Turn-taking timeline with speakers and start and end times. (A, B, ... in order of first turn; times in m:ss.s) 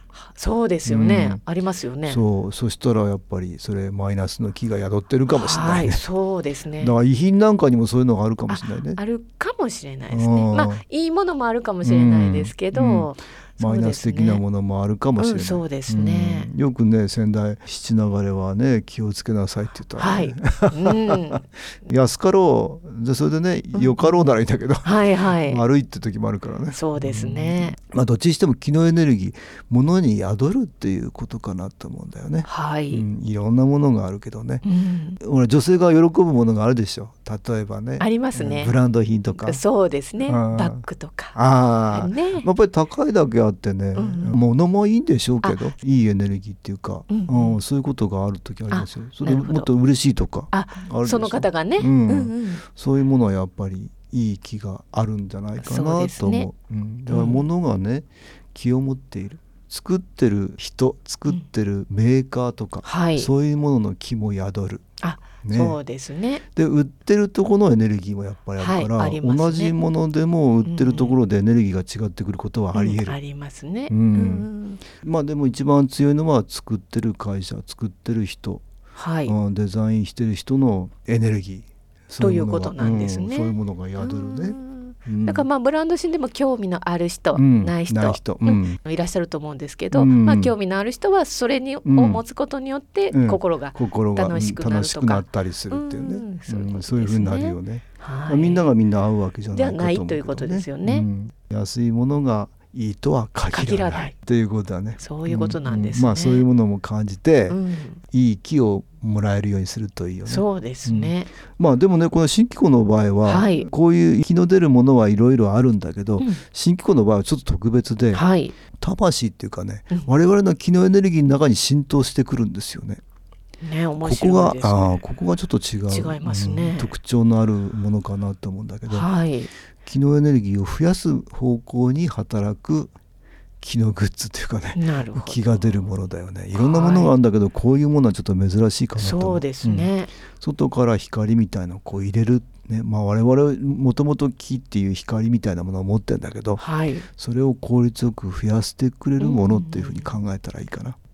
0:00.3-0:02.2 A
0:00.8-0:01.4 B
0:02.0-0:06.0 B
0:05.3-0:06.9 A
0:06.8-0:09.0 B
0:08.5-0:14.4 A
0:10.1-0:10.8 B
0:11.8-0:21.3 B
0:15.2-0:16.5 A
0:20.0-0:21.4 A
0:21.8-0:34.6 B
0:23.7-0:24.2 A
0:24.8-0:25.6 A
0:26.7-0:27.8 A
0:32.4-0:33.0 A
0:34.6-0:35.2 A
0:35.2-0:39.6 B
0:38.0-0:38.7 A
0:39.4-0:41.4 A
0:40.2-1:04.8 B
0:41.9-0:42.5 A
0:44.0-0:44.4 A
0:45.4-0:45.7 A
0:47.1-0:47.6 A
0:48.7-0:49.7 A
0:50.5-0:52.6 A
0:55.6-0:56.5 A
0:57.1-0:57.5 A
1:02.8-1:03.3 A
1:05.0-1:06.4 A
1:05.4-1:05.8 B
1:06.5-1:13.2 B
1:08.6-1:09.7 A
1:10.6-1:11.2 A
1:12.7-1:14.8 A
1:13.9-1:18.6 B
1:18.9-1:19.3 A
1:19.2-1:25.4 B
1:22.2-1:38.6 A
1:27.3-1:28.8 B
1:29.9-1:30.5 B
1:31.8-1:32.2 B
1:33.1-1:47.6 B
1:39.5-1:41.1 A
1:43.5-1:44.1 A
1:45.0-1:46.4 A
1:47.5-1:48.0 A
1:48.1-1:58.2 B
1:50.3-1:51.3 A
1:53.2-1:53.7 A
1:58.1-1:58.5 A
1:58.7-2:03.0 B
2:03.6-2:05.0 A
2:04.0-2:09.1 B
2:05.9-2:06.9 A
2:08.9-2:09.5 A
2:09.8-2:12.9 B
2:13.6-2:26.6 B
2:14.8-2:15.7 A
2:16.5-2:17.1 A
2:19.0-2:20.1 A
2:26.6-2:27.1 A
2:27.2-2:31.0 B
2:29.2-2:30.0 A